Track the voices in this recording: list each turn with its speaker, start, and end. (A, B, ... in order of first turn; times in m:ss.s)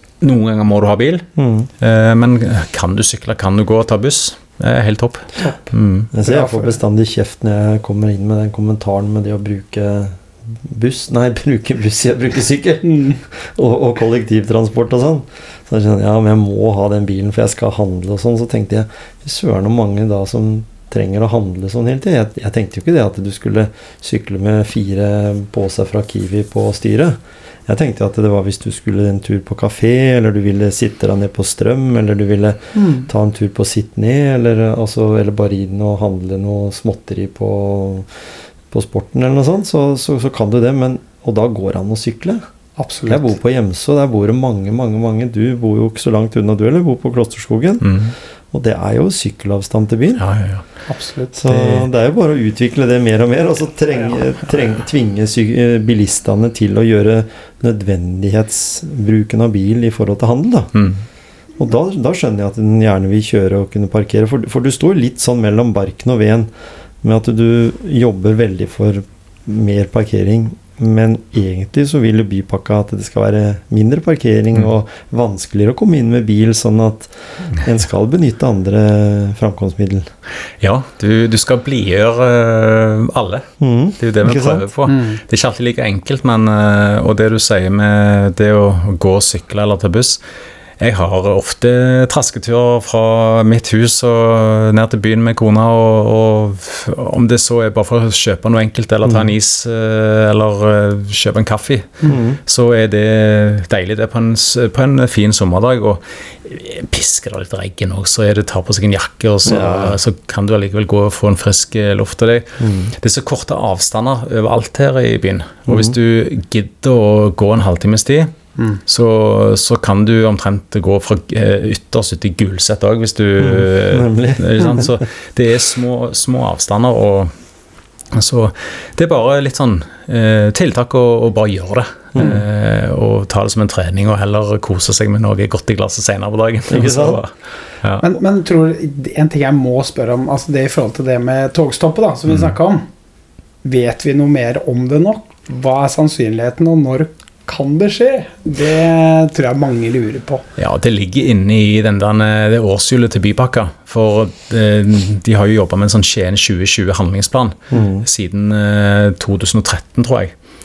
0:00.2-0:01.3 A
0:01.4-0:01.7 B
0:01.8-0:06.1 A
0:05.4-0:05.6 C
0:06.1-0:38.1 B
0:06.2-0:06.7 C
0:12.8-0:13.2 C
0:32.7-0:33.1 C
0:38.7-0:42.4 B
0:42.8-0:43.3 C
0:43.1-0:48.0 B
0:47.8-0:48.1 A
0:48.5-0:50.2 B
0:50.2-0:50.6 A
0:50.9-0:51.4 C
0:51.3-1:00.7 B
0:51.5-0:51.8 A
1:00.7-1:01.0 A
1:01.6-1:06.5 B
1:07.0-1:20.1 B
1:20.6-1:23.5 A
1:23.6-1:24.7 B
1:24.0-1:30.2 A
1:24.9-1:25.2 C
1:30.8-1:58.3 A
1:39.0-1:39.3 B
1:42.1-1:42.4 B
1:49.4-1:50.0 B
1:52.6-1:52.9 B
1:55.7-1:56.0 B
1:58.9-2:07.3 A
2:03.4-2:05.0 B
2:08.1-2:17.3 A
2:12.1-2:12.4 B
2:16.7-2:17.2 B
2:18.0-2:22.9 C
2:22.3-2:22.5 A
2:23.6-2:30.4 C
2:30.6-2:40.3 A
2:37.7-2:38.0 B